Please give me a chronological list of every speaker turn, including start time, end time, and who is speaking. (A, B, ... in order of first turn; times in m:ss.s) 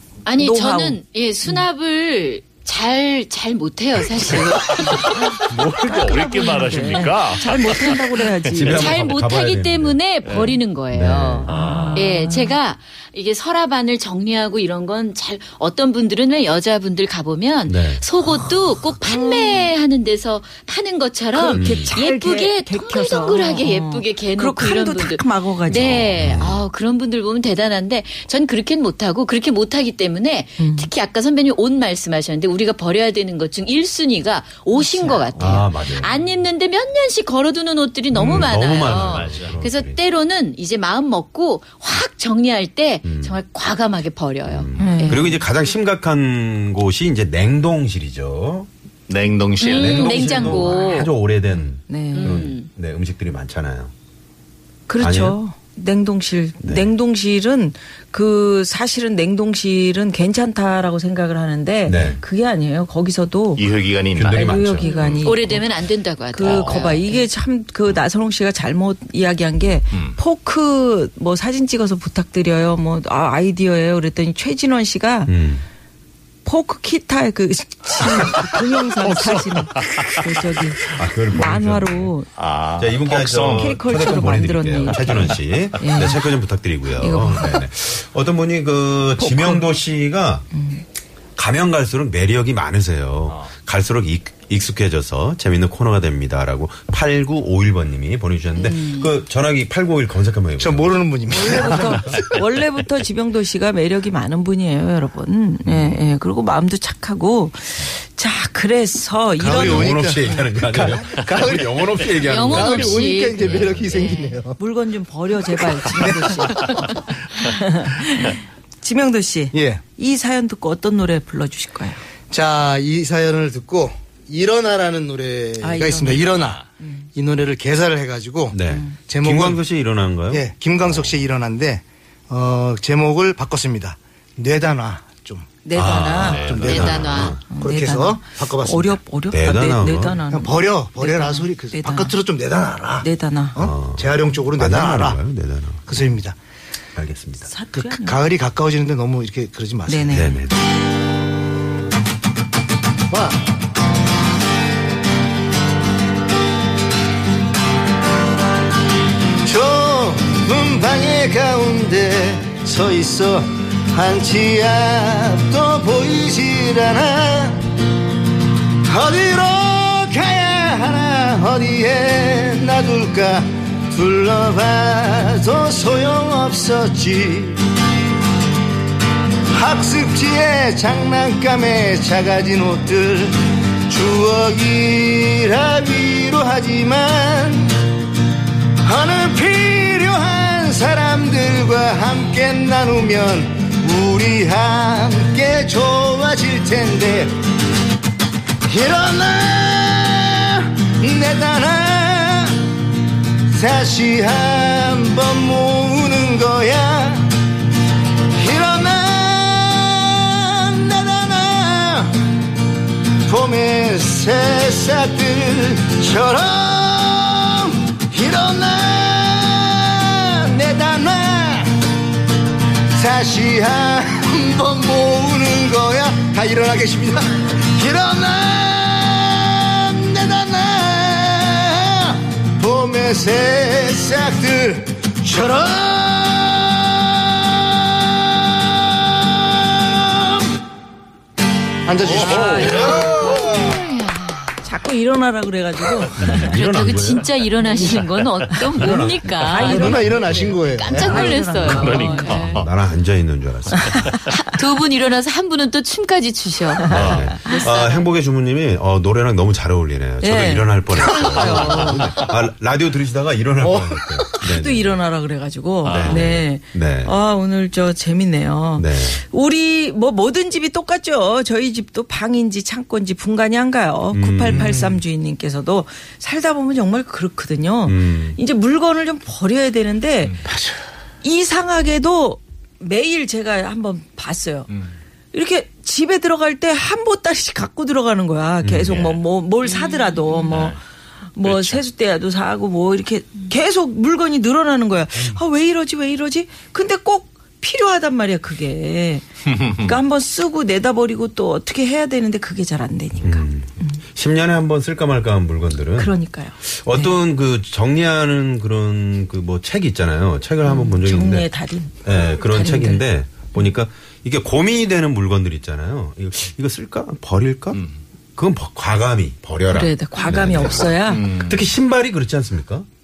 0:00.2-0:05.4 A
0:00.4-0:01.6 B
0:04.7-0:08.7 C
0:05.1-0:08.9 B
0:08.5-0:10.0 D
0:08.7-0:45.3 A
0:10.3-0:10.5 C
0:10.9-0:11.5 D
0:11.5-0:12.6 B
0:11.5-0:12.1 C
0:17.7-0:18.0 D
0:19.0-0:19.7 B
0:21.3-0:26.1 B
0:21.5-0:21.9 D
0:25.7-0:26.6 D
0:30.6-0:30.9 B
0:34.7-0:35.7 B
0:35.4-0:36.1 D
0:38.1-0:40.0 D
0:38.7-0:39.6 C
0:43.0-0:43.4 D
0:44.4-0:48.7 D
0:44.8-0:45.4 B
0:49.1-0:50.5 C
0:49.6-0:51.1 A
0:49.6-0:53.9 D
0:50.3-0:51.0 B
0:51.9-0:52.4 B
0:52.1-0:52.7 A
0:54.9-1:03.6 B
0:55.0-0:55.4 D
0:56.6-0:56.9 D
1:01.8-1:02.2 D
1:03.6-1:05.2 C
1:04.1-1:04.9 D
1:04.3-1:05.6 B
1:05.0-1:07.2 A
1:06.3-1:15.3 B
1:06.4-1:06.8 C
1:15.3-1:15.6 D
1:16.4-1:22.3 B
1:19.0-1:20.2 C
1:20.9-1:22.1 D
1:22.4-1:23.9 C
1:22.8-1:30.4 D
1:23.6-1:26.2 B
1:25.0-1:25.3 C
1:27.0-1:27.6 B
1:29.2-1:29.7 B
1:30.5-1:30.8 B
1:31.4-1:42.2 D
1:38.7-1:39.0 A
1:40.6-1:42.2 E
1:41.3-1:50.4 B
1:45.6-1:46.0 D
1:49.4-1:53.2 D
1:49.4-1:54.6 E
1:52.2-1:54.4 A
1:53.4-1:53.7 C
1:54.6-2:02.0 B
1:56.0-1:56.6 E
1:59.5-1:59.8 E
2:02.3-2:06.6 E
2:05.6-2:07.1 B
2:06.0-2:06.6 C
2:07.2-2:09.6 E
2:08.5-2:11.2 D
2:08.7-2:09.0 B
2:10.3-2:15.5 E
2:15.6-2:16.5 B
2:15.7-2:17.4 D
2:16.1-2:17.0 C
2:16.4-2:19.0 E
2:16.6-2:17.4 A
2:17.5-2:22.1 B
2:19.3-2:20.2 D
2:20.3-2:25.2 E
2:23.0-2:23.6 B
2:23.6-2:26.1 D
2:25.9-2:26.4 E
2:27.0-2:27.5 D
2:27.5-2:28.2 B
2:27.7-2:30.3 E
2:29.9-2:30.3 B
2:30.1-2:30.6 D
2:33.1-2:33.4 E
2:39.4-2:47.6 E
2:48.9-2:57.6 E
2:59.5-3:07.7 E
3:08.8-3:17.4 E
3:18.7-3:22.6 E
3:23.5-3:27.3 E
3:28.3-3:32.2 E
3:33.3-3:41.7 E
3:42.9-4:00.4 E
4:01.8-4:03.8 E
4:02.0-4:03.0 C
4:02.1-4:03.6 B
4:02.5-4:03.3 D
4:03.3-4:04.5 A
4:04.6-4:06.6 B
4:06.2-4:07.3 D
4:06.5-4:12.6 A
4:07.6-4:08.0 B
4:08.6-4:10.2 D
4:09.4-4:12.4 B
4:09.6-4:11.3 E
4:11.0-4:14.2 D
4:11.6-4:12.7 C
4:14.4-4:18.0 A
4:16.9-4:25.0 D
4:16.9-4:17.3 C
4:20.2-4:22.0 B
4:21.4-4:22.3 C
4:24.4-4:40.4 B
4:25.8-4:26.2 C
4:25.8-4:27.1 D
4:28.8-4:29.2 D
4:34.1-4:34.9 D
4:37.8-4:38.4 D
4:41.2-4:44.7 B
4:45.3-4:50.8 B
4:48.6-4:49.1 D
4:48.9-4:49.2 C
4:50.3-4:50.8 C
4:51.4-5:04.0 B
4:51.4-4:51.8 C
4:59.5-4:59.9 C
5:03.2-5:11.5 D
5:06.0-5:07.2 B
5:10.6-5:13.7 B
5:12.0-5:17.8 D
5:18.4-5:22.8 D
5:19.7-5:21.3 B
5:21.0-5:21.7 C